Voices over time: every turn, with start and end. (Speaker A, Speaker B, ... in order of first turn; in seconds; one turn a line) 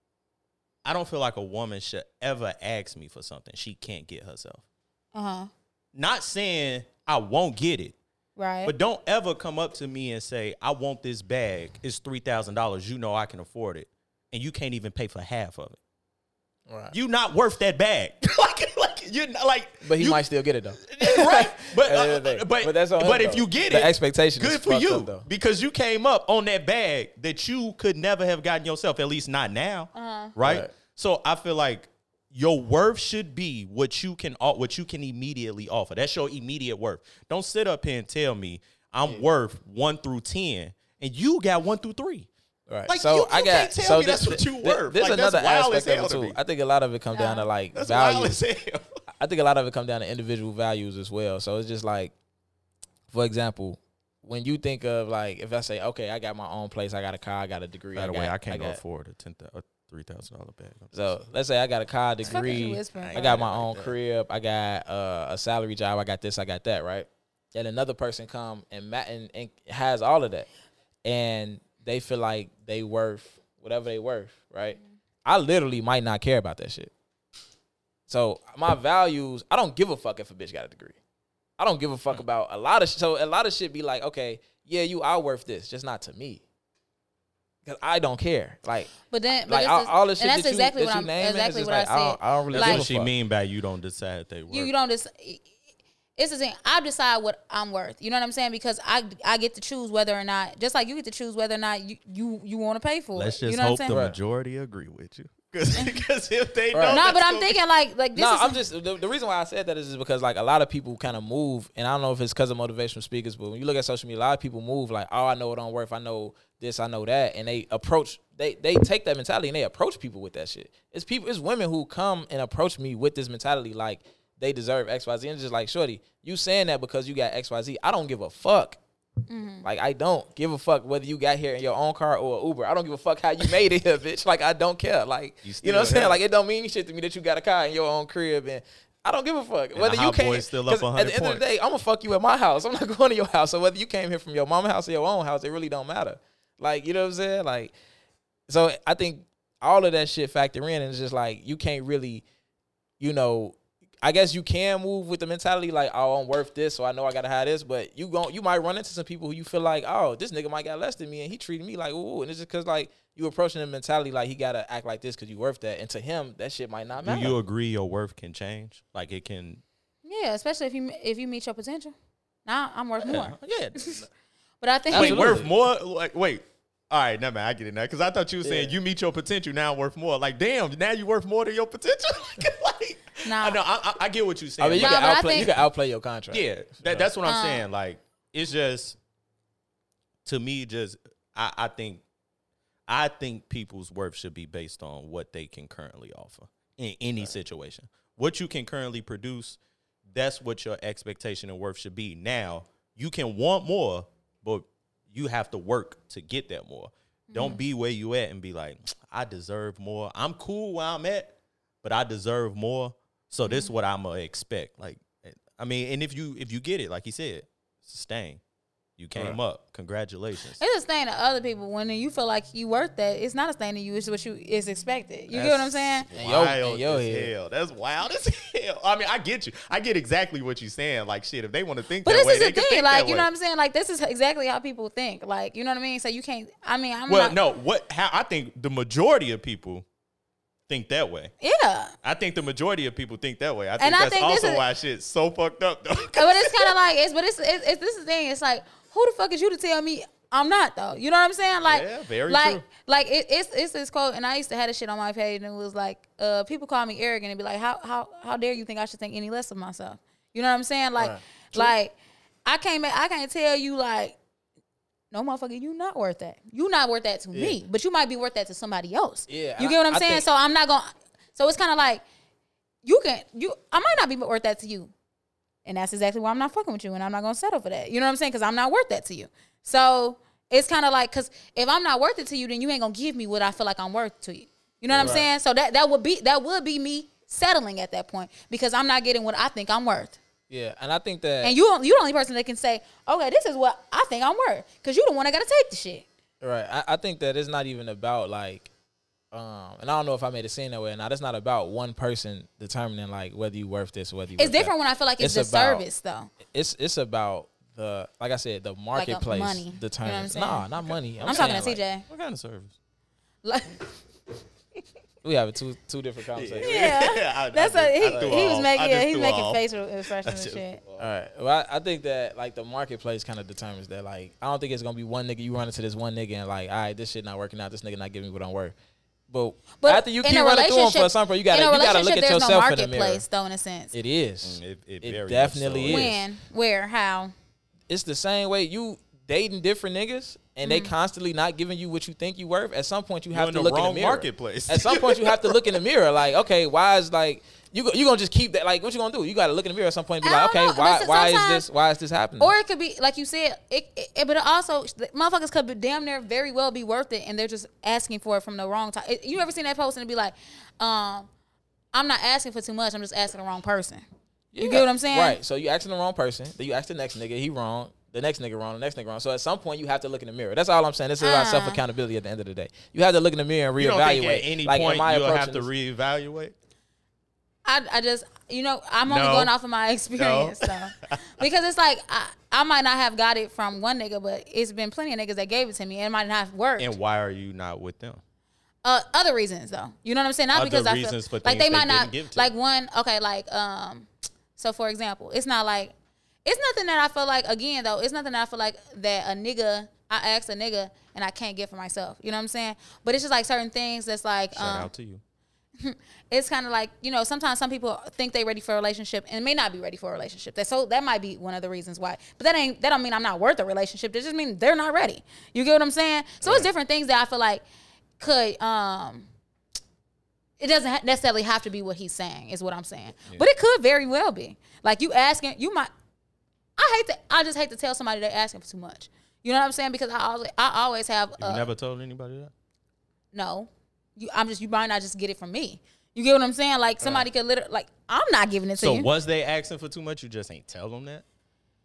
Speaker A: 0.8-4.6
Speaker B: 5.1-5.5
Speaker A: 5.9-8.0
Speaker B: 8.4-8.7
Speaker A: 8.6-15.8
Speaker C: 16.7-16.9
Speaker A: 16.9-20.2
Speaker C: 19.8-25.2
Speaker A: 20.8-42.3
Speaker B: 29.9-30.3
Speaker C: 30.4-30.7
Speaker C: 42.7-48.4
Speaker A: 42.9-46.4
Speaker B: 47.1-47.5
Speaker A: 47.7-48.8
Speaker C: 49.2-52.1
Speaker C: 53.1-58.8
Speaker A: 57.9-61.2
Speaker C: 60.9-70.5
Speaker B: 62.2-63.4
Speaker A: 63.0-63.9
Speaker C: 71.0-76.9
Speaker C: 78.1-81.0
Speaker C: 81.6-86.4
Speaker C: 87.7-88.9
Speaker B: 89.1-92.8
Speaker C: 89.5-93.1
Speaker A: 92.5-94.7
Speaker B: 94.5-95.5
Speaker B: 96.2-103.9
Speaker A: 103.1-107.6
Speaker C: 103.9-104.2
Speaker C: 106.7-107.0
Speaker B: 106.9-108.6
Speaker C: 108.1-128.8
Speaker B: 129.3-129.7
Speaker C: 129.6-147.7
Speaker A: 135.4-136.2
Speaker A: 139.7-141.4
Speaker C: 148.5-152.2
Speaker C: 153.0-167.4
Speaker A: 167.0-169.6
Speaker B: 170.0-171.9
Speaker B: 172.4-174.0
Speaker A: 173.0-174.1
Speaker B: 174.6-175.3
Speaker C: 174.9-175.5
Speaker A: 174.9-185.5
Speaker C: 178.4-178.7
Speaker B: 183.2-183.6
Speaker C: 184.6-187.1
Speaker B: 184.8-185.6
Speaker A: 186.3-189.0
Speaker B: 187.2-187.6
Speaker A: 190.2-192.0
Speaker A: 192.9-199.6
Speaker A: 200.1-218.4
Speaker B: 207.3-207.6
Speaker B: 213.4-213.7
Speaker A: 219.0-220.6
Speaker B: 220.6-226.1
Speaker A: 225.3-233.3
Speaker C: 226.1-227.3
Speaker B: 232.0-237.4
Speaker A: 237.1-239.8
Speaker A: 240.7-241.3
Speaker B: 241.4-241.9
Speaker A: 242.0-246.8
Speaker B: 243.8-244.6
Speaker B: 246.1-261.9
Speaker A: 251.6-252.7
Speaker C: 261.0-261.7
Speaker B: 262.4-264.2
Speaker B: 265.1-272.0
Speaker C: 267.3-267.6
Speaker C: 269.3-270.2
Speaker B: 272.8-274.9
Speaker B: 275.6-290.2
Speaker A: 284.9-285.2
Speaker C: 284.9-285.3
Speaker C: 290.5-291.5
Speaker B: 291.4-296.1
Speaker C: 296.4-298.7
Speaker C: 299.3-305.8
Speaker B: 304.4-306.3
Speaker C: 306.4-311.8
Speaker B: 308.9-310.7
Speaker B: 311.2-312.0
Speaker A: 311.2-312.7
Speaker B: 313.4-313.9
Speaker C: 315.2-316.8
Speaker A: 316.3-319.6
Speaker B: 316.6-320.8
Speaker C: 318.1-318.4
Speaker A: 320.2-321.0
Speaker C: 321.0-328.7
Speaker C: 329.3-333.2
Speaker B: 329.8-333.9
Speaker C: 333.9-336.1
Speaker A: 334.4-336.2
Speaker B: 335.9-337.3
Speaker C: 337.9-352.5
Speaker B: 340.6-340.9
Speaker A: 343.3-345.6
Speaker B: 350.2-351.7
Speaker B: 352.4-361.3
Speaker B: 361.9-364.0
Speaker C: 364.5-375.7
Speaker B: 364.6-365.4
Speaker B: 371.2-371.8
Speaker A: 373.8-376.5
Speaker B: 377.6-386.9
Speaker A: 379.1-379.5
Speaker A: 380.1-381.2
Speaker A: 386.8-388.2
Speaker B: 388.8-395.9
Speaker A: 390.5-392.5
Speaker B: 396.4-404.9
Speaker A: 404.5-405.2
Speaker B: 405.8-417.6
Speaker A: 416.4-416.7
Speaker B: 418.2-419.3
Speaker B: 420.6-425.9
Speaker B: 426.8-431.7
Speaker A: 431.4-432.5
Speaker B: 433.3-439.1
Speaker A: 437.0-437.3
Speaker A: 438.8-441.2